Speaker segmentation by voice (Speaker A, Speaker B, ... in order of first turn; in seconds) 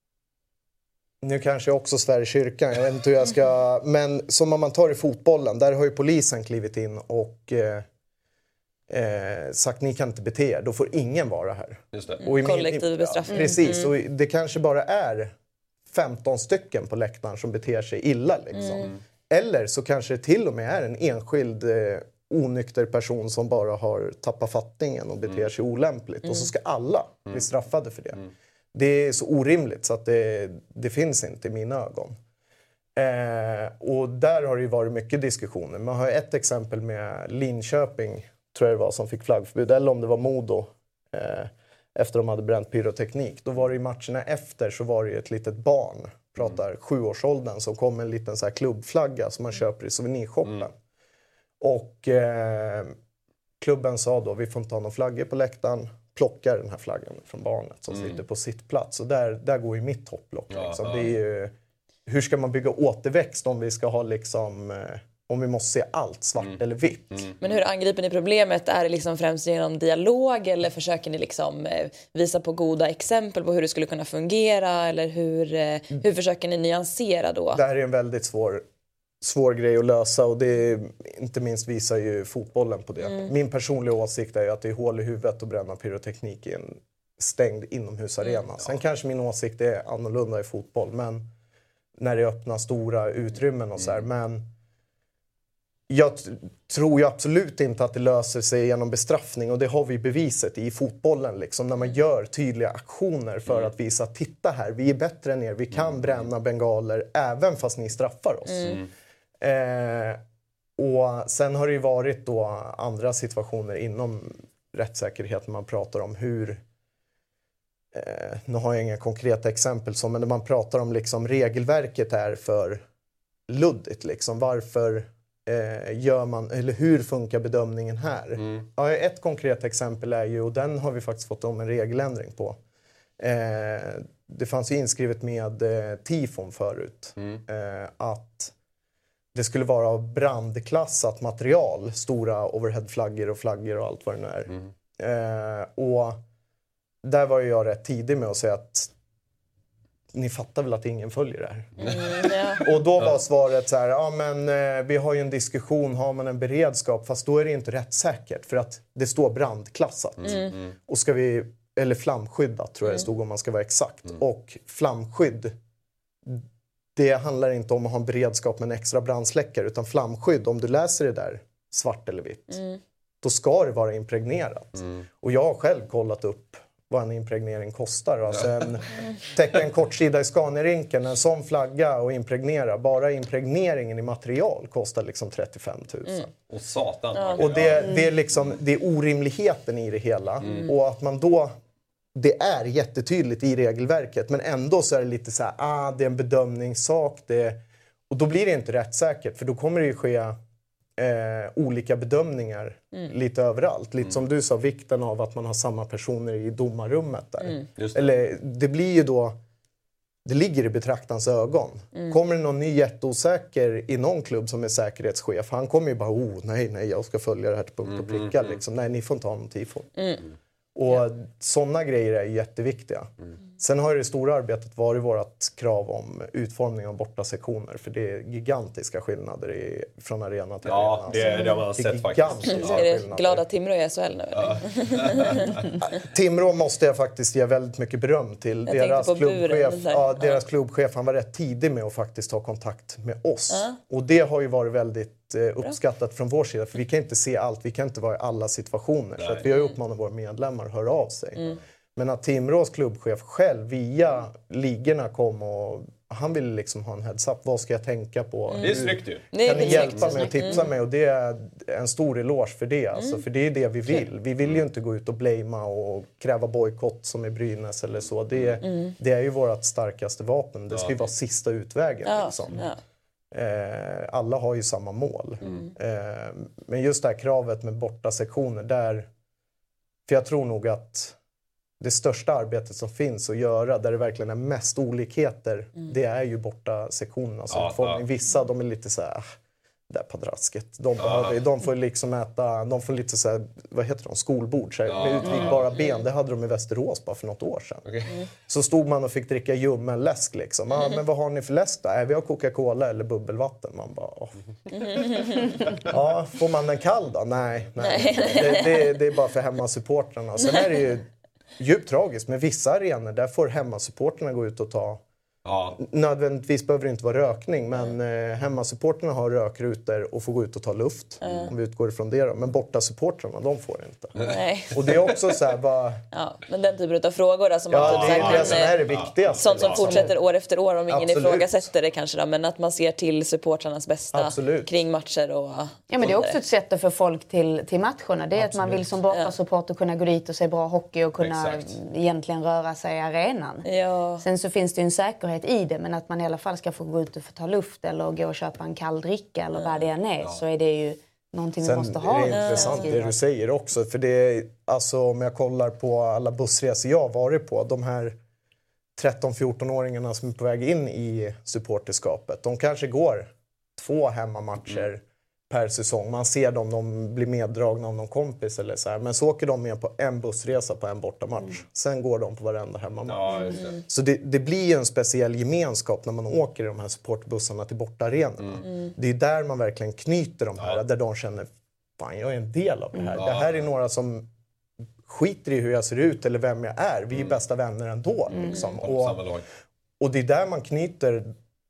Speaker A: 1.2-7.9, 8.9-15.3, 15.9-32.2, 33.0-50.7, 51.6-52.9, 53.6-61.5, 62.1-67.3, 77.5-78.6, 79.2-91.3, 92.0-94.5, 95.9-108.8, 109.4-110.2, 110.8-116.6, 117.9-122.8, 123.5-132.6, 133.2-138.5, 139.3-146.2, 147.0-148.9, 150.1-152.1, 152.6-165.6, 166.9-172.6, 173.2-186.3, 187.4-191.5, 192.2-200.4, 201.0-209.4, 210.2-220.0, 220.8-233.4, 235.8-272.7, 273.3-279.1, 280.1-281.2, 281.8-289.3, 289.9-297.9, 298.5-304.4, 305.7-315.0, 315.7-324.1, 324.7-326.0, 327.7-330.1, 330.9-331.7, 334.1-334.7, 338.4-338.9, 351.6-358.2, 359.0-384.3, 385.0-389.2, 390.0-391.3
Speaker B: 11.9-12.2, 18.7-19.0, 60.5-61.1, 67.1-67.4, 105.7-106.0, 128.4-128.6, 151.8-152.2, 160.2-160.7, 186.5-187.9, 207.8-208.1, 217.9-218.3, 230.7-232.9, 234.3-235.6, 249.2-249.4, 258.6-260.2, 270.7-271.0, 287.5-288.0, 291.0-291.4, 294.9-295.7, 297.9-298.2, 315.4-315.8, 321.2-321.5, 327.7-330.0, 341.2-341.7, 373.1-373.8, 383.2-383.6, 388.8-389.4
Speaker C: 12.2-13.9, 18.6-18.9, 67.4-77.6, 83.0-83.3, 108.5-108.8, 151.8-152.7, 160.2-160.6, 187.2-187.5, 220.0-220.2, 231.1-231.6, 232.5-235.7, 238.7-240.4, 243.5-243.8, 259.3-260.7, 263.0-263.2, 268.6-268.9, 272.1-272.8, 304.8-305.6, 307.8-308.9, 324.3-324.9, 326.1-328.8, 329.3-336.4, 343.6-344.2, 352.3-352.9
Speaker D: 13.3-13.6, 335.9-343.7, 344.2-353.2